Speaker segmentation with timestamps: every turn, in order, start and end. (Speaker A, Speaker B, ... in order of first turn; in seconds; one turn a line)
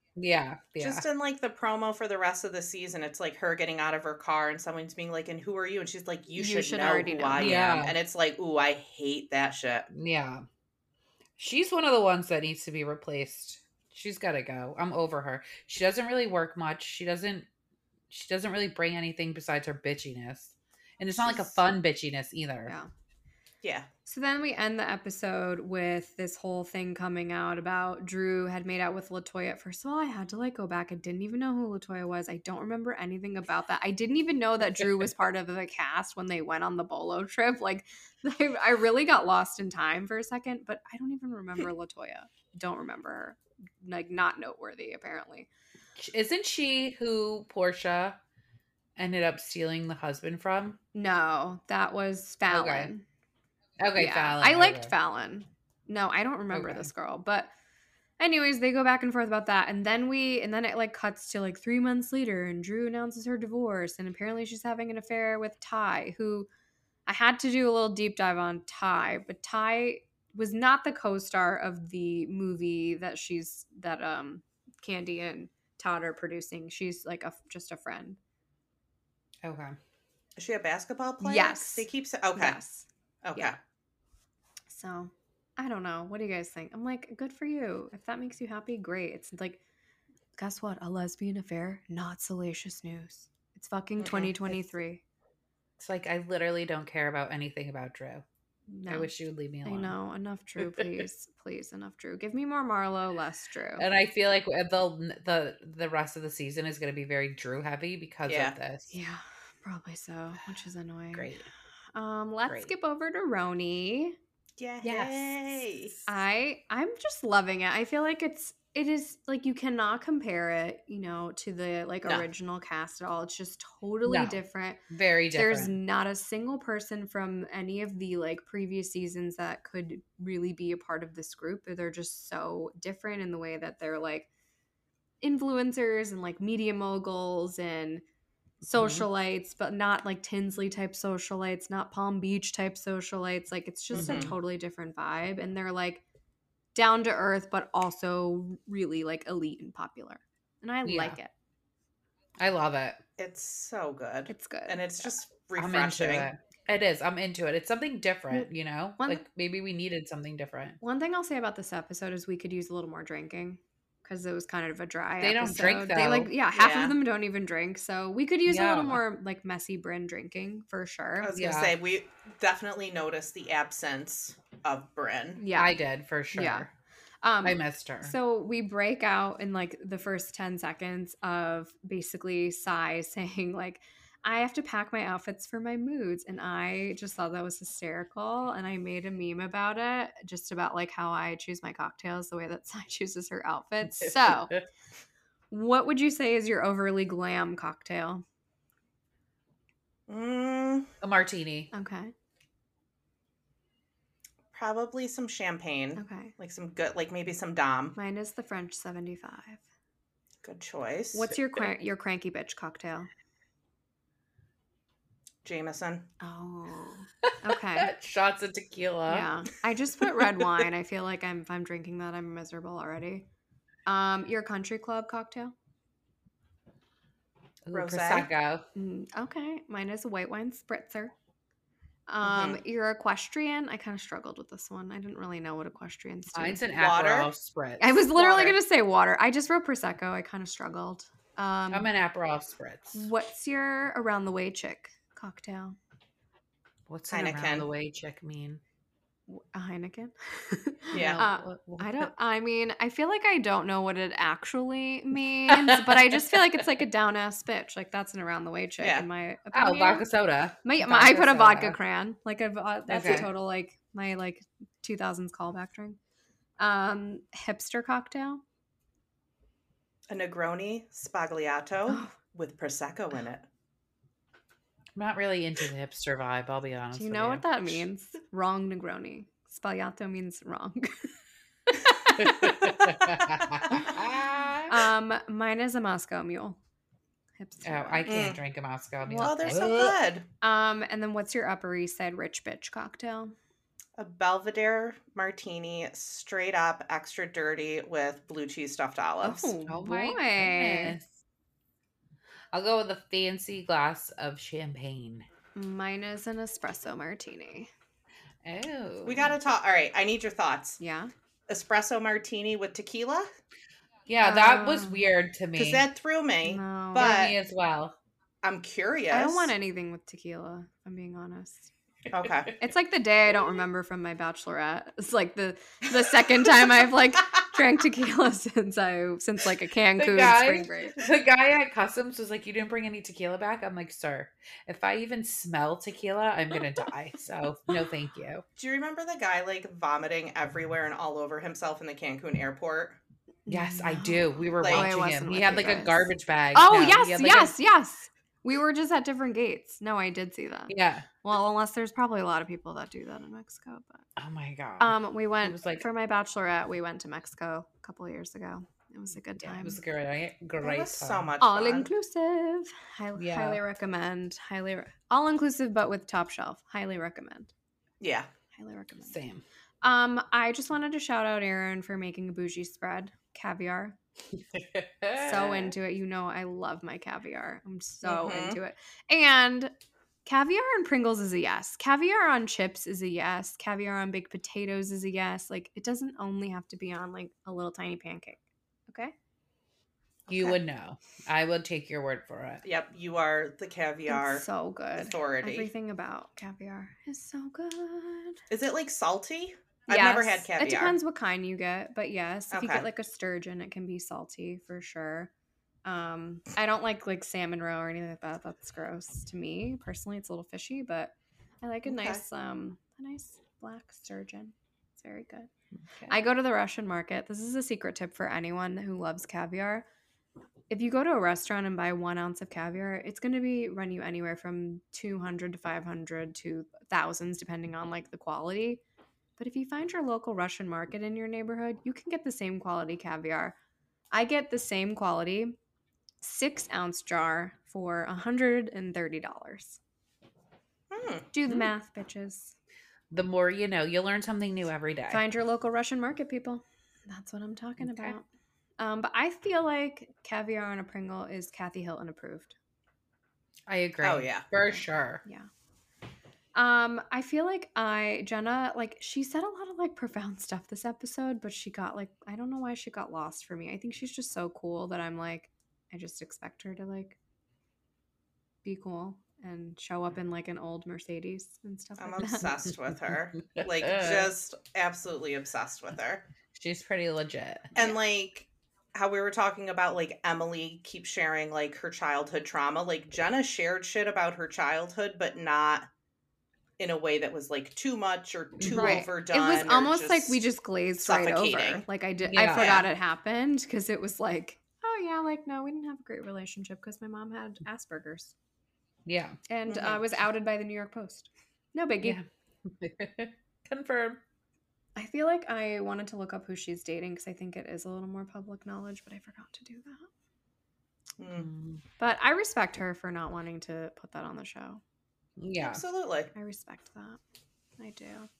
Speaker A: 0.1-1.1
Speaker B: 0.8-9.9
Speaker C: 6.3-7.6
Speaker A: 7.4-8.0
Speaker A: 9.9-10.4
Speaker A: 11.4-17.5
Speaker A: 18.1-22.7
Speaker C: 21.2-21.6
Speaker C: 24.1-45.5
Speaker A: 46.0-48.2
Speaker A: 49.0-50.8
Speaker C: 50.9-53.0
Speaker A: 52.5-52.9
Speaker A: 53.8-54.9
Speaker C: 54.0-57.5
Speaker A: 56.5-56.9
Speaker C: 58.2-66.5
Speaker C: 67.0-78.2
Speaker A: 79.4-79.8
Speaker B: 80.4-82.6
Speaker C: 81.2-83.5
Speaker B: 83.2-83.5
Speaker C: 84.7-89.6
Speaker C: 90.3-95.0
Speaker B: 94.0-94.3
Speaker A: 95.8-98.2
Speaker C: 98.7-99.1
Speaker A: 98.9-100.0
Speaker C: 99.6-103.8
Speaker A: 100.6-100.9
Speaker A: 103.8-108.9
Speaker B: 108.3-108.5
Speaker C: 108.9-111.4
Speaker A: 111.1-111.5
Speaker C: 111.9-114.2
Speaker B: 114.6-116.0
Speaker A: 114.8-115.4
Speaker C: 116.1-124.8
Speaker A: 124.0-125.8
Speaker C: 125.3-134.3
Speaker C: 135.2-138.0
Speaker C: 138.6-146.0
Speaker A: 138.7-139.1
Speaker B: 143.9-144.3
Speaker A: 143.9-144.3
Speaker C: 146.7-151.3
Speaker A: 150.8-151.2
Speaker A: 152.4-153.0
Speaker B: 153.2-156.3
Speaker C: 154.3-155.1
Speaker A: 155.6-160.8
Speaker C: 159.0-159.2
Speaker C: 160.8-171.3
Speaker A: 165.2-166.3
Speaker B: 166.5-167.0
Speaker A: 168.5-169.0
Speaker B: 171.2-175.4
Speaker A: 171.3-171.7
Speaker C: 175.4-175.8
Speaker A: 175.5-176.7
Speaker C: 176.3-176.7
Speaker C: 177.2-194.5
Speaker A: 177.4-178.1
Speaker A: 194.0-194.6
Speaker C: 195.5-198.2
Speaker B: 200.1-200.9
Speaker A: 201.0-201.7
Speaker C: 201.7-202.1
Speaker B: 204.5-207.9
Speaker C: 205.9-206.3
Speaker C: 207.9-209.6
Speaker B: 210.4-211.3
Speaker C: 211.1-213.1
Speaker B: 215.4-216.1
Speaker C: 216.2-217.9
Speaker A: 217.2-219.3
Speaker C: 219.1-223.2
Speaker C: 223.8-225.5
Speaker A: 227.7-228.7
Speaker B: 227.7-228.3
Speaker C: 228.7-231.1
Speaker C: 232.1-236.6
Speaker B: 232.2-232.6
Speaker A: 236.3-238.6
Speaker B: 236.8-237.3
Speaker C: 237.8-241.9
Speaker A: 241.7-243.1
Speaker C: 242.9-245.8
Speaker A: 246.9-248.6
Speaker B: 247.1-247.7
Speaker C: 249.3-260.1
Speaker B: 250.9-251.2
Speaker A: 250.9-252.1
Speaker A: 255.5-256.6
Speaker B: 258.8-259.1
Speaker A: 259.5-261.8
Speaker C: 260.6-266.0
Speaker A: 262.9-263.3
Speaker C: 266.6-268.4
Speaker B: 270.1-273.4
Speaker C: 271.9-272.1
Speaker A: 274.9-277.8
Speaker C: 276.9-281.1
Speaker C: 281.8-282.5
Speaker A: 282.2-284.8
Speaker C: 284.7-286.6
Speaker C: 287.4-288.2
Speaker A: 287.6-289.9
Speaker B: 288.1-288.4
Speaker C: 289.1-289.6
Speaker B: 289.1-290.2
Speaker C: 290.4-293.3
Speaker B: 294.0-299.5
Speaker C: 299.2-301.0
Speaker A: 299.6-301.2
Speaker A: 302.5-305.2
Speaker C: 305.6-307.7
Speaker A: 308.4-309.3
Speaker B: 309.0-310.8
Speaker C: 310.8-311.1
Speaker B: 311.5-313.3
Speaker A: 314.1-315.8
Speaker C: 314.2-315.0
Speaker B: 315.6-317.3
Speaker C: 316.4-317.1
Speaker A: 317.0-317.9
Speaker B: 318.4-319.5
Speaker C: 319.1-321.7
Speaker B: 322.1-322.5
Speaker A: 322.2-322.5
Speaker C: 322.6-331.0
Speaker A: 329.9-338.4
Speaker B: 338.6-343.0
Speaker C: 343.4-354.1
Speaker A: 343.5-347.5
Speaker B: 344.6-344.9
Speaker A: 350.7-351.1
Speaker A: 354.2-355.8
Speaker C: 354.8-359.8
Speaker A: 359.4-361.3
Speaker B: 360.6-361.9
Speaker C: 361.4-367.5
Speaker A: 363.1-363.6
Speaker B: 368.0-368.3
Speaker C: 368.5-369.2
Speaker A: 369.1-369.4
Speaker C: 369.8-374.0
Speaker A: 374.5-375.7
Speaker C: 375.1-379.7
Speaker B: 378.0-378.6
Speaker C: 380.2-389.1
Speaker A: 390.3-392.6
Speaker B: 392.6-395.7
Speaker C: 394.1-398.4
Speaker B: 398.5-401.0
Speaker C: 399.9-405.3
Speaker B: 402.5-402.9
Speaker C: 405.8-415.5
Speaker B: 411.9-412.2
Speaker C: 416.1-419.9
Speaker C: 420.7-428.8
Speaker C: 429.4-433.6
Speaker C: 434.1-435.6
Speaker C: 436.2-439.8
Speaker B: 440.9-441.3
Speaker C: 441.3-442.5
Speaker A: 443.1-445.2
Speaker C: 445.1-448.2
Speaker A: 447.8-448.1
Speaker C: 448.8-452.6
Speaker A: 453.7-455.2
Speaker B: 454.0-454.4
Speaker C: 454.6-455.5
Speaker C: 456.5-467.2
Speaker C: 468.6-472.5
Speaker B: 472.0-476.2
Speaker A: 473.5-474.3
Speaker A: 476.5-477.7
Speaker B: 477.7-485.9
Speaker B: 486.8-490.4
Speaker A: 488.6-489.0
Speaker C: 488.7-498.3
Speaker B: 491.0-491.8
Speaker A: 492.3-492.8
Speaker B: 492.5-492.9
Speaker A: 499.1-499.4
Speaker C: 499.5-502.2
Speaker B: 499.7-500.0
Speaker A: 502.0-504.2
Speaker C: 504.9-510.1
Speaker B: 511.2-511.5
Speaker A: 511.4-511.8
Speaker C: 512.0-514.8
Speaker A: 515.4-515.8
Speaker B: 515.6-516.3
Speaker C: 516.3-517.2
Speaker C: 517.8-518.3